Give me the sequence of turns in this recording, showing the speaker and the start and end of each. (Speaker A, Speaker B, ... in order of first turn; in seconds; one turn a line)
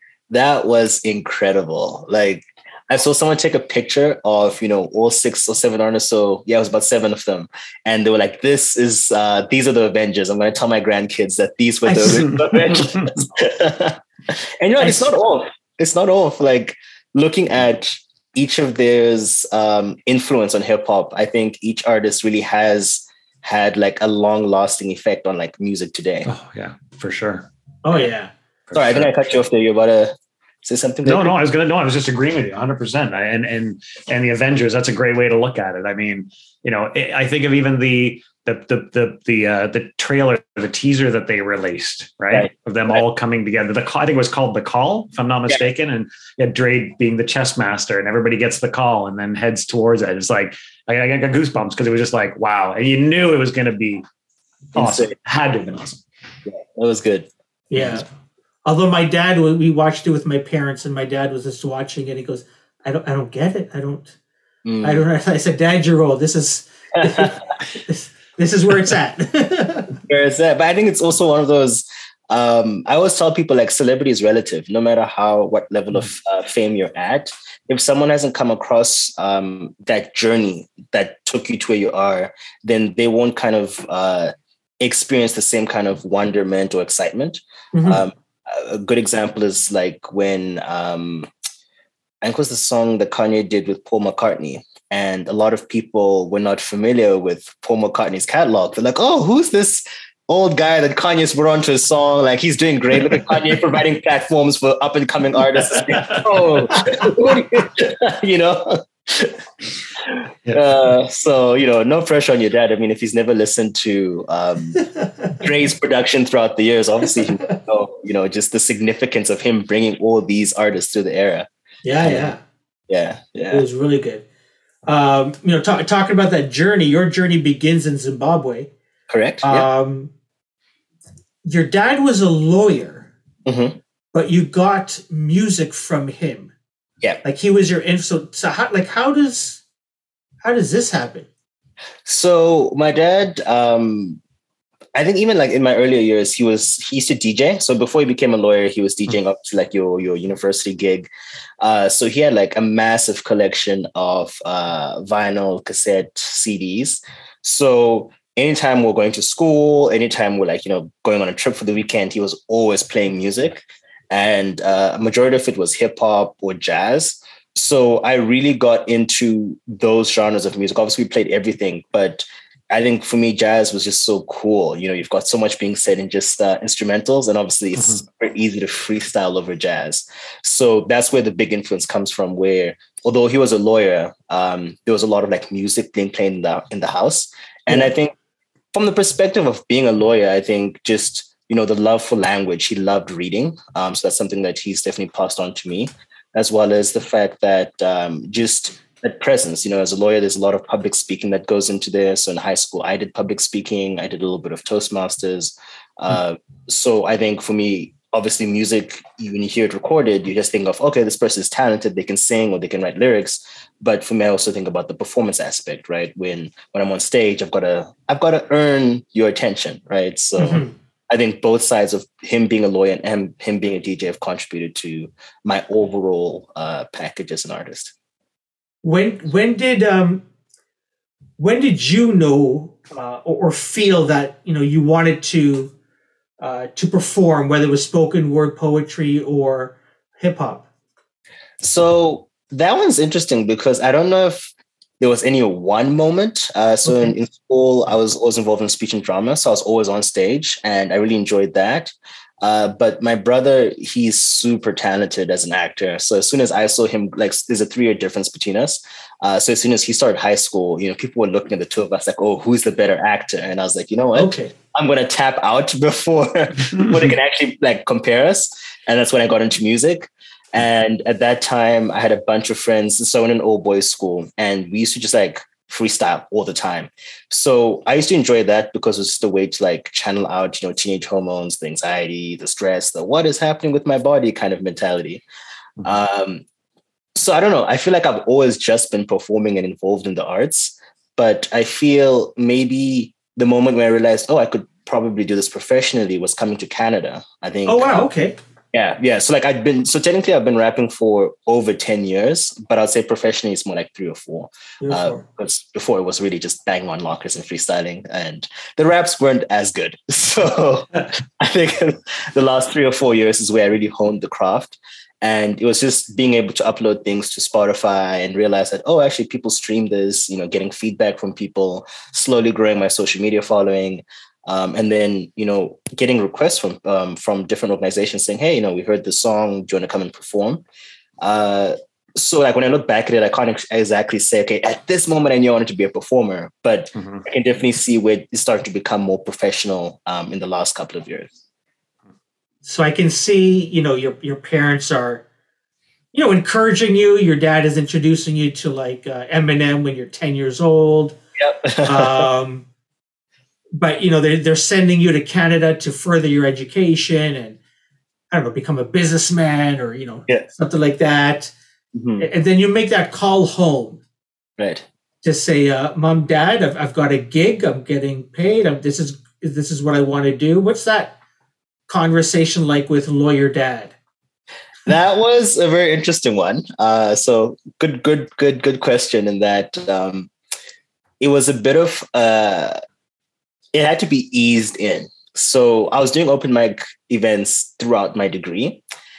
Speaker A: 0.3-26.3
Speaker B: 11.8-12.6
Speaker C: 26.2-27.5
Speaker B: 27.8-28.3
Speaker C: 28.7-29.1
Speaker A: 28.7-31.4
Speaker C: 31.0-54.0
Speaker C: 54.7-56.0
Speaker A: 54.7-55.1
Speaker A: 56.5-57.3
Speaker B: 57.7-58.0
Speaker B: 58.6-64.1
Speaker A: 64.6-65.0
Speaker B: 64.8-70.0
Speaker A: 67.0-67.3
Speaker A: 70.0-91.3
Speaker B: 87.7-88.0
Speaker A: 92.2-109.4
Speaker A: 110.0-114.8
Speaker A: 115.3-121.5
Speaker B: 121.8-122.4
Speaker A: 122.0-122.3
Speaker A: 122.9-123.6
Speaker B: 123.5-124.2
Speaker B: 124.8-128.7
Speaker A: 129.1-129.7
Speaker B: 129.4-130.1
Speaker B: 131.4-133.1
Speaker A: 133.4-133.8
Speaker B: 134.1-136.5
Speaker B: 137.2-139.6
Speaker B: 140.4-141.3
Speaker A: 142.0-144.2
Speaker A: 144.9-151.1
Speaker A: 151.6-188.1
Speaker A: 188.7-227.9
Speaker B: 220.4-220.7
Speaker B: 228.8-230.2
Speaker B: 231.4-235.7
Speaker B: 236.4-240.7
Speaker A: 241.6-285.2
Speaker B: 264.1-264.5
Speaker A: 285.8-286.4
Speaker A: 287.1-298.1
Speaker B: 297.6-298.4
Speaker A: 298.7-330.6
Speaker B: 304.8-305.2
Speaker A: 331.2-341.3
Speaker B: 342.6-345.2
Speaker B: 346.1-351.2
Speaker A: 351.4-352.2
Speaker B: 351.8-352.6
Speaker B: 353.8-357.6
Speaker B: 358.3-361.5
Speaker A: 361.9-362.2
Speaker B: 362.2-364.0
Speaker A: 364.6-364.8
Speaker B: 365.2-371.2
Speaker B: 371.9-373.9
Speaker A: 374.9-380.3
Speaker A: 381.2-382.8
Speaker A: 383.7-388.8